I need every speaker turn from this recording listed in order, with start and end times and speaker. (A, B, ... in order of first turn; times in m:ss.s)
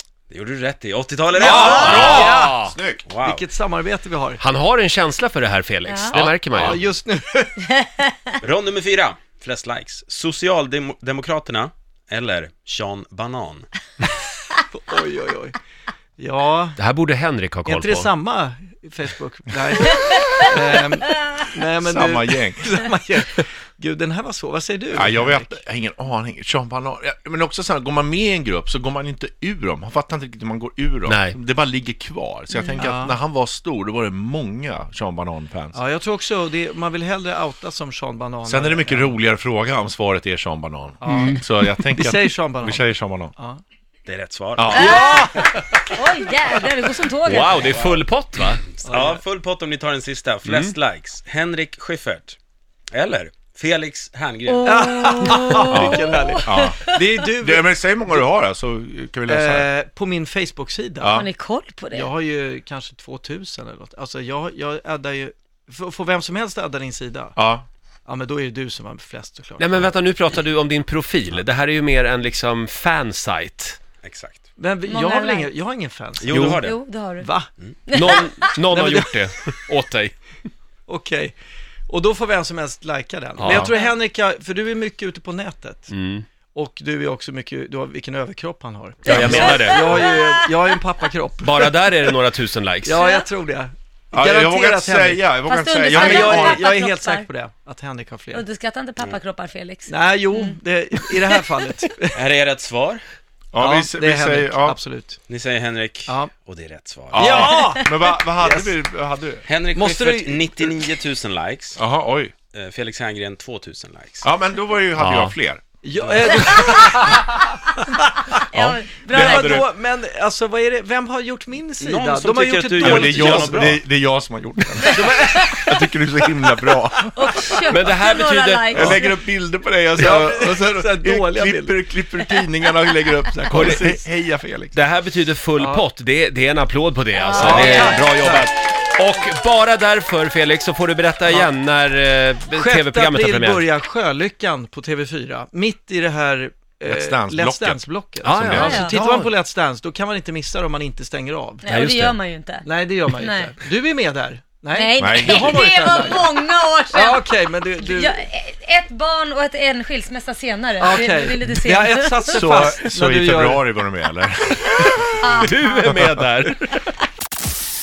0:00.3-0:02.3 A
0:01.3-0:02.6 B
0:01.4-0:02.8 C
0:01.4-0:03.0 D
0:01.6-0:02.1 E
0:03.0-0:03.5 A
0:03.2-0:04.4 B
0:04.4-0:06.8 C
0:05.9-0:06.5 E
0:06.5-0:07.7 B
0:07.7-0:08.2 E
0:08.4-0:13.7 A
0:14.7-0:15.6 B
0:16.2-0:16.8 B
0:16.8-0:18.1 C
0:17.6-0:25.6 B
0:20.0-0:20.4 E
0:21.8-0:22.8 D
0:24.9-0:35.8 D
0:31.0-0:31.4 C
0:32.8-0:33.2 B
0:35.7-0:39.2 B
0:38.4-0:43.3 D
0:41.0-0:41.5 C
0:41.1-0:41.4 B
0:41.9-0:43.6 B
0:44.0-0:45.0 A
0:44.6-0:45.5 D
0:44.7-0:45.4 E
0:44.7-0:45.5 B
0:45.9-0:47.8 E
0:47.2-0:48.6 C
0:47.6-0:48.0 A
0:48.7-0:52.4 A
0:48.8-0:49.2 B
0:50.4-0:50.7 C
0:52.9-0:55.2 A
0:54.5-0:57.0 E
0:54.6-0:58.2 B
0:55.6-0:59.7 D
0:59.3-1:01.2 B
1:01.0-1:01.3 D
1:01.1-1:02.1 E
1:01.9-1:07.3 B
1:07.4-1:07.6 D
1:08.0-1:09.8 B
1:09.6-1:13.8 C
1:14.0-1:14.4 A
1:14.6-1:16.5 B
1:14.8-1:15.5 E
1:16.2-1:16.8 A
1:16.3-1:16.6 C
1:16.5-1:17.3 E
1:17.2-1:17.5 B
1:17.9-1:18.6 E
1:17.9-1:20.1 C
1:18.0-1:19.2 B
1:20.9-1:21.3 B
1:21.9-1:25.9 B
1:23.4-1:23.7 C
1:23.4-1:23.7 D
1:23.6-1:23.9 E
1:25.9-1:26.2 C
1:26.5-1:32.2 B
1:29.0-1:30.1 C
1:29.1-1:30.7 E
1:31.4-1:33.0 C
1:32.8-1:38.4 B
1:32.9-1:33.3 E
1:34.1-1:36.8 D
1:35.4-1:37.3 E
1:38.3-1:41.6 E
1:39.9-1:42.2 B
1:42.1-1:43.0 A
1:43.5-1:44.8 D
1:43.6-1:45.2 B
1:45.3-1:47.6 A
1:46.0-1:46.3 B
1:47.1-1:49.4 D
1:47.1-1:48.8 B
1:49.4-1:51.8 A
1:49.7-1:50.9 B
1:51.8-1:52.3 D
1:52.5-1:54.3 A
1:54.2-1:55.6 D
1:55.0-1:55.4 C
1:55.8-1:58.4 B
1:56.0-1:56.4 A
1:58.5-1:59.6 E
1:58.5-1:59.6 C
1:59.1-2:03.8 B
2:01.8-2:03.8 A
2:02.8-2:07.6 D
2:04.8-2:05.6 B
2:04.8-2:05.7 E
2:07.1-2:09.1 E
2:07.7-2:09.0 C
2:08.7-2:14.8 D
2:10.0-2:11.8 B
2:13.5-2:14.0 C
2:14.7-2:23.7 C
2:15.6-2:15.9 B
2:17.2-2:18.0 E
2:17.4-2:18.5 B
2:21.3-2:21.5 B
2:22.5-2:31.7 B
2:26.9-2:29.2 D
2:28.2-2:29.3 C
2:28.5-2:29.1 E
2:31.6-2:33.6 E
2:31.7-2:32.2 C
2:32.6-2:38.2 B
2:34.7-2:42.8 E
2:35.0-2:35.7 D
2:40.8-2:43.7 B
2:42.2-2:45.2 D
2:44.8-2:45.9 E
2:45.3-2:46.8 C
2:45.8-2:46.2 D